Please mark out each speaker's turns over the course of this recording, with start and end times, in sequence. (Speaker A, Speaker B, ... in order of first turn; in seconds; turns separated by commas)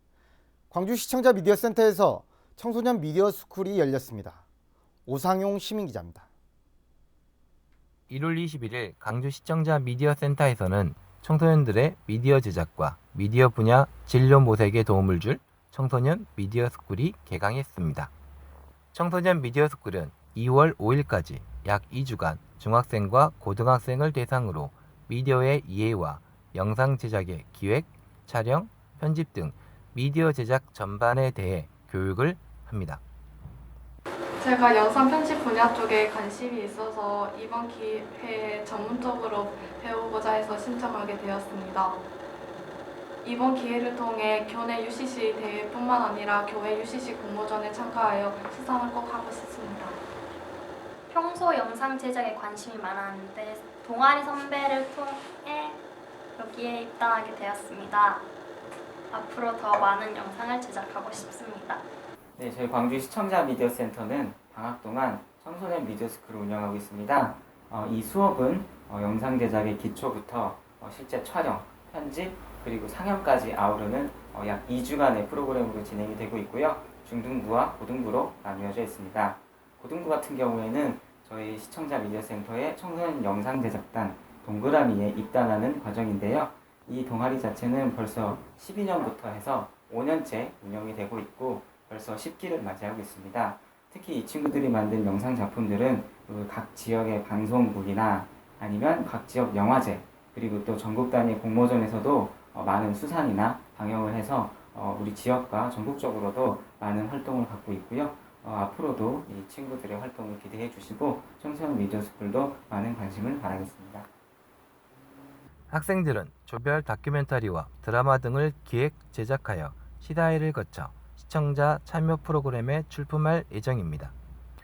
Speaker A: 0.7-4.4, Speaker A: 5.1-6.2, Speaker B: 8.1-18.1, Speaker B: 18.9-33.0, Speaker C: 34.4-42.0, Speaker C: 43.2-50.0, Speaker D: 51.1-55.8, Speaker D: 56.4-58.2, Speaker D: 59.1-61.8, Speaker E: 62.4-114.1, Speaker B: 115.7-124.1